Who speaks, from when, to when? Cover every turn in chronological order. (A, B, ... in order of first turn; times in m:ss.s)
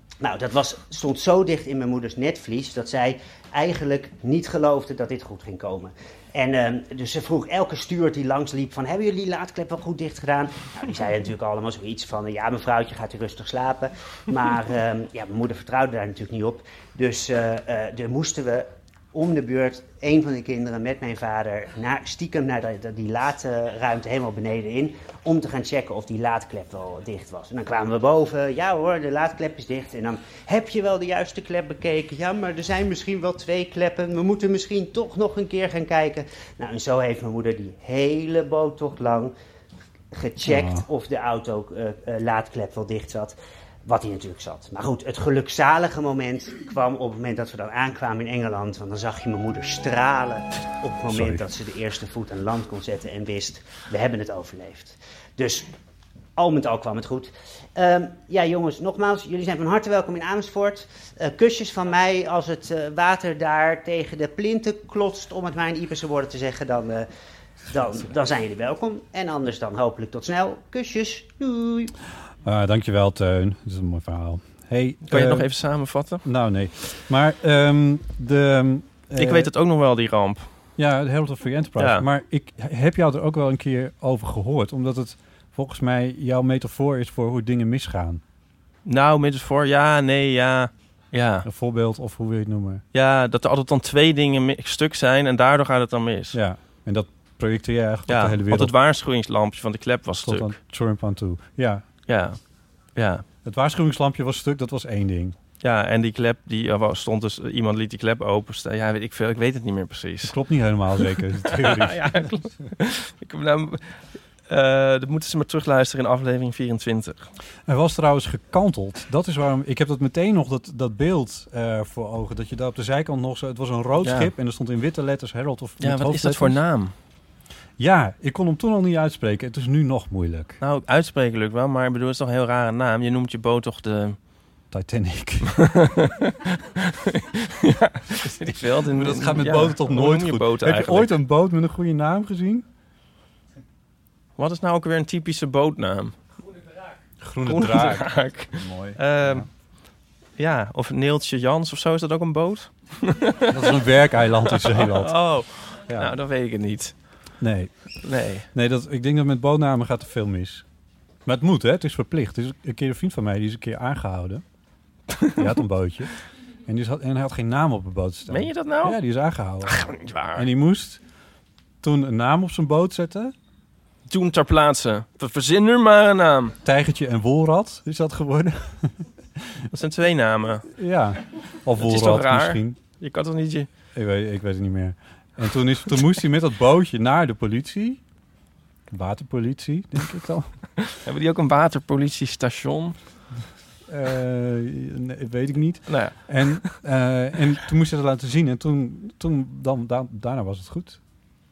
0:00.2-0:39.3 A
0:40.1-0:55.7 A
0:40.4-0:40.8 B
0:51.1-0:51.4 B
0:56.4-1:07.1 A
1:07.7-1:11.9 A
1:12.4-1:15.5 B
1:15.1-1:16.2 C
1:16.2-1:19.5 B
1:19.2-1:20.5 C
1:20.8-1:28.2 B
1:21.8-1:22.1 C
1:28.9-1:31.5 C
1:31.4-1:32.8 B
1:32.9-1:36.4 C
1:36.3-1:38.7 B
1:38.1-1:40.5 C
1:40.2-1:41.8 B
1:42.1-1:42.4 C
1:43.0-1:43.2 C
1:43.4-1:45.4 B
1:45.6-1:50.4 C
1:50.2-1:52.3 B
1:51.5-1:53.9 C
1:54.5-1:57.3 C
1:57.7-2:06.6 B
2:04.0-2:04.3 C
2:05.8-2:06.9 C
2:07.8-2:10.6 B
2:10.6-2:14.2 C
2:14.7-2:15.6 B
2:15.6-2:21.2 C
2:18.4-2:22.6 B
2:24.4-2:26.2 C
2:27.2-2:29.5 B
2:27.4-2:29.5 C
2:30.4-2:33.7 C
2:33.5-2:35.2 B
2:34.5-2:36.9 C
2:35.9-2:36.1 B
2:37.4-2:37.7 B
2:38.0-2:38.5 C
2:38.5-2:40.6 B
2:41.3-2:44.4 B
2:45.4-2:46.1 B
2:46.7-2:51.0 B
2:48.3-2:49.0 C
2:49.6-2:50.5 C
2:51.8-2:53.3 B
2:54.1-2:56.6 C
2:56.6-2:59.6 B
2:59.7-3:00.7 C
3:00.7-3:02.8 B
3:01.8-3:03.7 C
3:03.9-3:08.0 B
3:08.9-3:10.6 B
3:10.9-3:13.0 C
3:13.9-3:21.0 B
3:15.9-3:16.8 C